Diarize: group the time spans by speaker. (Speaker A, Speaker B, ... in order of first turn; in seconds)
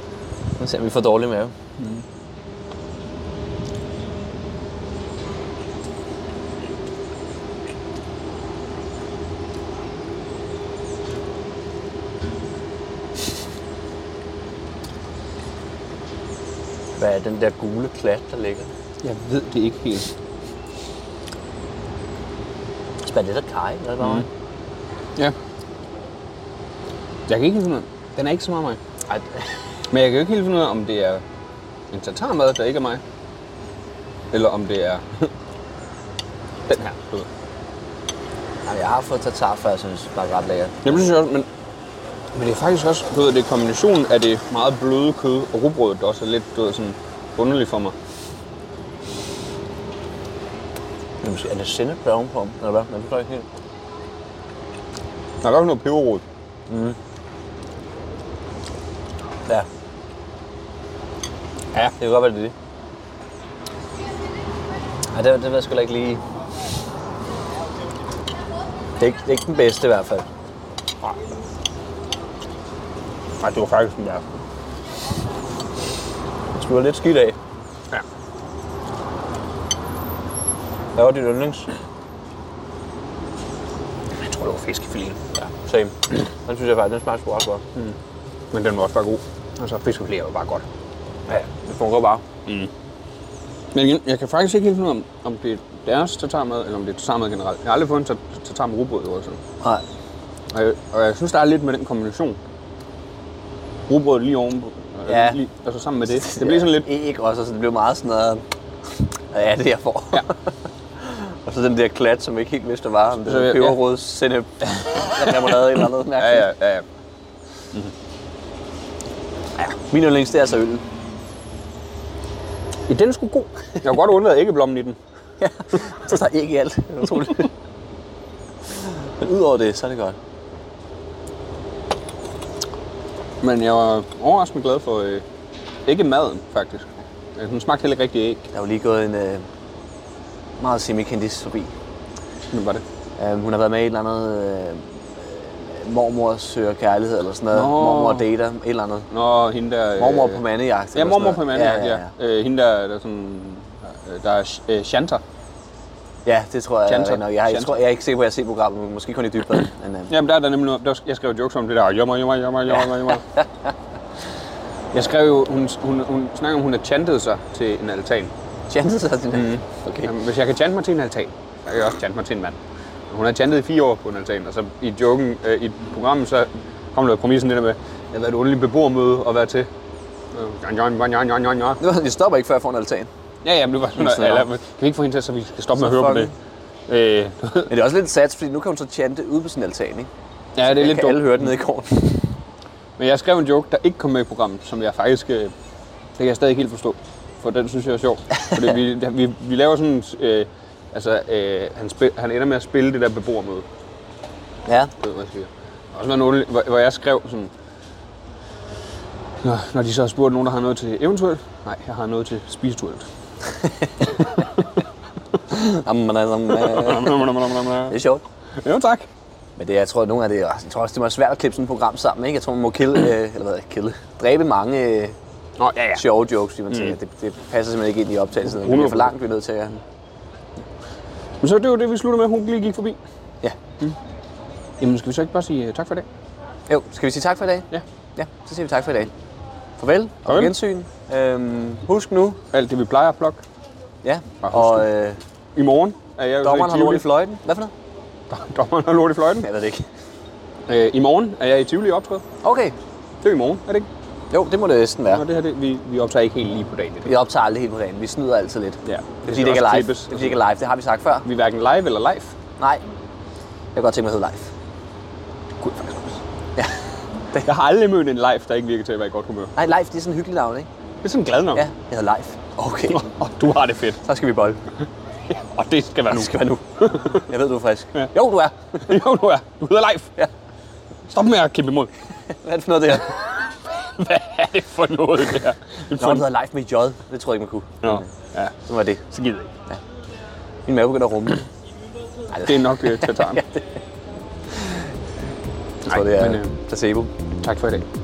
Speaker A: 0.6-1.5, 17.0-18.7, 23.0-24.3, 29.1-29.4, 38.7-41.1, 51.2-53.5, 56.7-57.0, 62.0-62.5, 65.1-66.2, 69.0-70.3, 76.5-77.4, 81.0-81.7, 85.3-86.0, 86.5-87.6, 91.3-92.2, 105.1-105.4, 106.1-108.4, 109.3-110.4, 111.0-116.5, 119.9-120.8, 125.4-127.5, 128.7-130.2, 138.5-139.5, 140.6-141.8, 143.2-149.1, 150.0-152.1, 156.2-160.1, 168.7-170.1, 181.8-183.1, 183.9-184.5, 185.8-186.3, 187.7-190.1, 190.6-192.2, 204.7-204.9, 213.4-214.5, 215.5-217.3, 217.9-218.2, 219.6-225.2, 226.0-229.8, 236.7-239.1, 239.8-242.4, 244.0-245.2, 246.4-247.7, 249.4-249.9, 252.4-252.8, 254.3-255.2, 257.1-261.3, 262.6-262.9, 263.8-264.5, 269.6-270.7, 271.5-273.1, 274.0-274.6, 276.1-279.0, 282.3-283.4, 285.9-288.1, 288.7-289.0, 290.7-291.4, 292.3-293.6, 294.5-294.8, 295.9-297.1
Speaker B: 1.8-2.0, 19.0-20.1, 27.3-28.8, 29.9-31.2, 31.9-33.0, 34.3-35.3, 36.7-37.3, 40.8-41.5, 42.3-48.0, 55.4-56.2, 73.4-74.2, 84.2-85.2, 88.5-90.7, 93.7-99.4, 100.5-102.4, 103.9-106.9, 113.2-113.8, 115.2-116.9, 122.9-125.0, 133.4-135.2, 135.9-138.5, 142.5-142.8, 147.5-148.3, 149.1-155.2, 156.9-157.8, 160.1-163.2, 164.9-168.3, 170.0-172.6, 173.1-179.7, 180.3-181.8, 183.4-186.3, 186.9-187.7, 190.6-191.5, 193.0-195.5, 196.2-203.7, 205.0-207.5, 209.4-213.1, 216.5-218.0, 218.6-219.1, 225.6-226.1, 228.4-229.2, 231.4-233.0, 234.8-236.1, 240.2-240.6, 242.5-243.4, 244.4-244.9, 245.6-247.2, 248.3-249.5, 250.7-252.2, 253.2-253.9, 255.1-257.1, 258.9-260.4, 261.2-262.4, 265.6-266.2, 267.4-269.5, 271.0-271.7, 272.9-274.0, 275.3-276.4, 278.9-280.1, 281.1-281.9, 283.7-286.3, 287.8-288.6, 289.1-289.5, 292.3-293.4, 295.9-296.5, 297.4-297.9